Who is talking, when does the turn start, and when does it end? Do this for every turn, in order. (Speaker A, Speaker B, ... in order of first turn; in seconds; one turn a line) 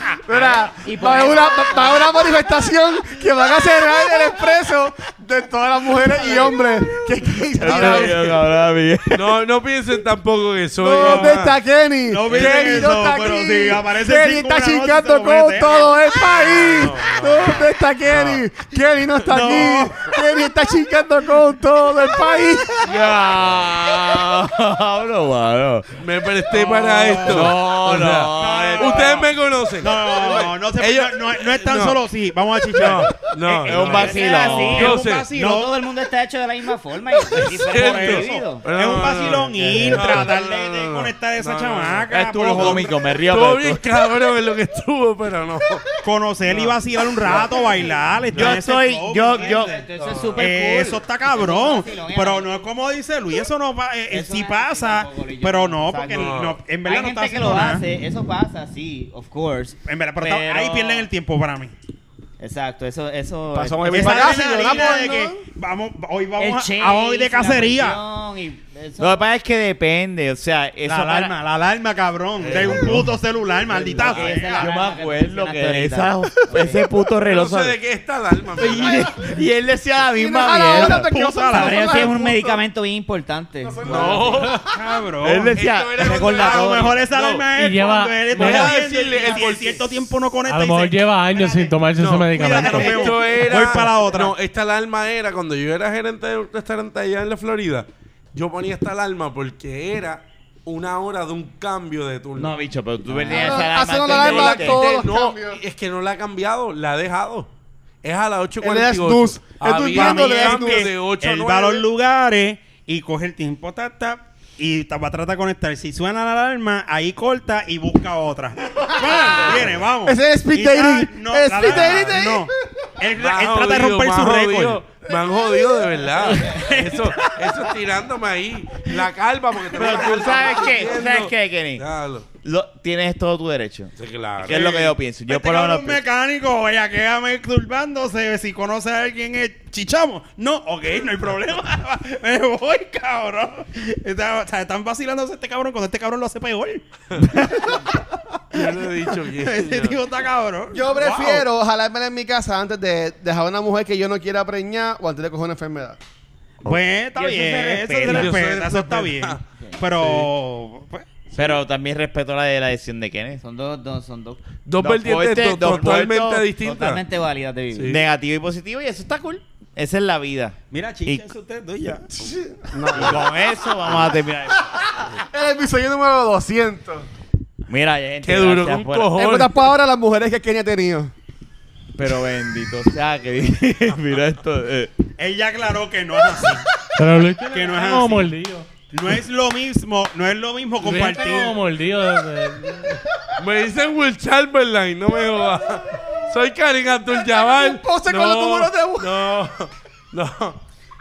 Speaker A: 0.1-8.4
Speaker B: 0.3-2.5
Speaker C: 7.6-9.3
Speaker D: 9.1-11.6
Speaker A: 10.8-22.9
Speaker E: 10.9-11.4
Speaker E: 12.1-16.1
Speaker D: 12.3-12.9
Speaker D: 16.6-18.4
Speaker E: 19.3-20.1
Speaker C: 22.8-26.0
Speaker D: 26.0-32.0
Speaker E: 26.5-27.6
Speaker C: 27.2-29.2
Speaker E: 28.3-29.3
Speaker E: 29.8-35.7
Speaker D: 32.7-35.3
Speaker C: 33.6-35.0
Speaker B: 34.1-40.3
Speaker D: 37.3-45.8
Speaker E: 37.6-43.0
Speaker C: 42.1-43.8
Speaker E: 46.0-49.9
Speaker D: 46.5-47.4
Speaker B: 47.2-47.6
Speaker C: 48.3-49.8
Speaker B: 49.3-52.6
Speaker D: 49.9-50.4
Speaker E: 50.4-57.9
Speaker B: 54.1-61.1
Speaker D: 56.1-56.6
Speaker E: 59.9-61.7
Speaker B: 62.4-64.5
Speaker A: 63.5-65.4
Speaker E: 63.9-68.0
Speaker B: 66.4-69.2
Speaker C: 69.0-71.3
Speaker E: 70.8-74.7
Speaker D: 72.4-73.1
Speaker B: 73.6-76.8
Speaker C: 74.0-77.8
Speaker D: 77.2-79.1
Speaker C: 78.6-81.1
Speaker A: 80.1-82.6
Speaker E: 80.7-82.1
Speaker B: 81.5-84.5
Speaker A: 83.6-84.7
Speaker D: 83.8-84.6
Speaker E: 84.7-91.7
Speaker C: 85.2-86.0
Speaker D: 85.5-87.5
Speaker B: 86.0-87.0
Speaker F: 87.5-88.8
Speaker D: 88.3-90.1
Speaker F: 90.5-93.2
Speaker D: 92.0-102.5
Speaker E: 92.3-94.3
Speaker C: 102.3-104.8
Speaker A: 103.2-105.6
Speaker D: 103.3-107.5
Speaker D: 108.0-111.8
Speaker A: 108.6-110.9
Speaker E: 109.9-124.8
Speaker A: 119.1-122.5
Speaker D: 121.7-122.2
Speaker D: 123.1-132.3
Speaker E: 126.2-127.4
Speaker C: 129.7-131.8
Speaker C: 132.4-136.0
Speaker D: 134.0-134.7
Speaker E: 134.5-147.8
Speaker D: 148.5-150.0
Speaker E: 149.2-151.4
Speaker A: 150.7-156.0
Speaker E: 156.6-161.1
Speaker C: 156.6-158.3
Speaker D: 158.0-159.4
Speaker D: 159.9-160.3
Speaker C: 161.3-163.4
Speaker B: 163.4-164.4
Speaker D: 164.7-167.0
Speaker C: 164.8-166.5
Speaker B: 166.6-168.0
Speaker D: 167.7-168.0
Speaker C: 167.8-171.3
Speaker E: 170.7-172.2
Speaker A: 172.1-173.2
Speaker C: 172.9-174.9
Speaker A: 173.9-174.1
Speaker A: 174.7-177.1
Speaker C: 177.7-179.1
Speaker D: 178.2-179.5
Speaker A: 179.1-181.1
Speaker C: 181.9-184.9
Speaker E: 185.2-186.7
Speaker F: 186.9-188.7
Speaker E: 187.5-188.3
Speaker E: 188.9-191.5
Speaker F: 190.8-193.0
Speaker D: 193.4-200.6
Speaker A: 197.1-199.1